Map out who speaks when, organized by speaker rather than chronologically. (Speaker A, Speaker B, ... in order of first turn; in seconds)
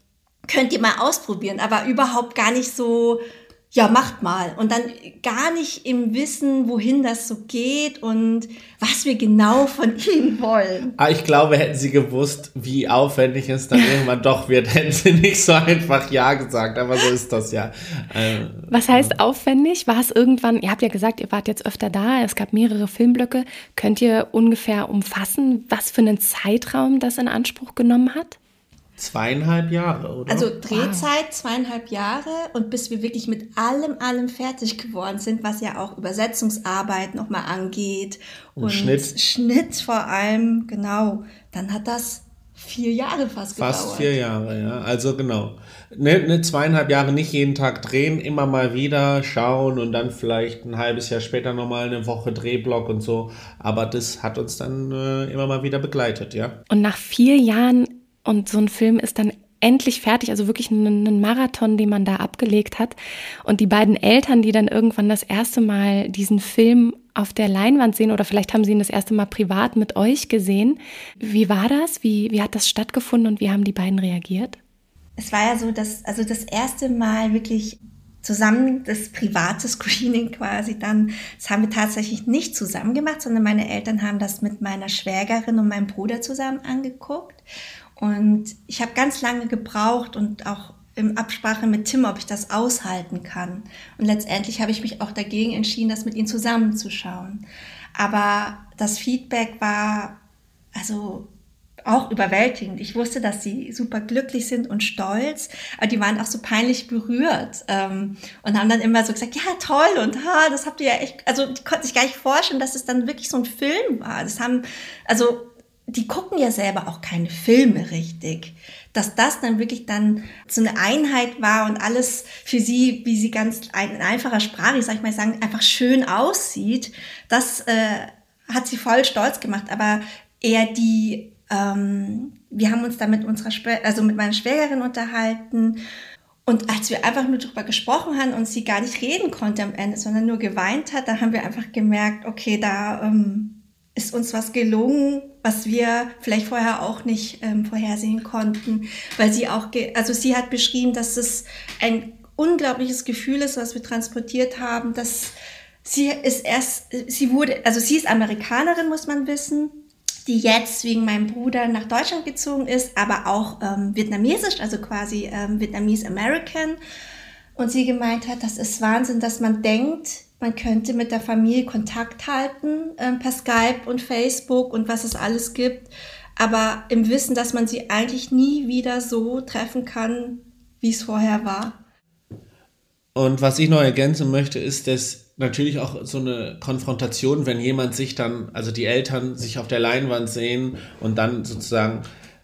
Speaker A: 0.5-3.2, 3.7-10.9, 30.3-44.1, 75.2-87.4, 88.0-97.4, 98.0-100.2, 100.7-101.3, 101.8-135.8, 136.4-155.3, 155.8-166.8, 167.6-181.8
Speaker B: 11.0-19.1, 29.0-30.5, 38.6-39.1, 43.5-56.6, 183.1-192.0
Speaker C: 18.7-28.4, 30.7-31.1, 56.7-74.6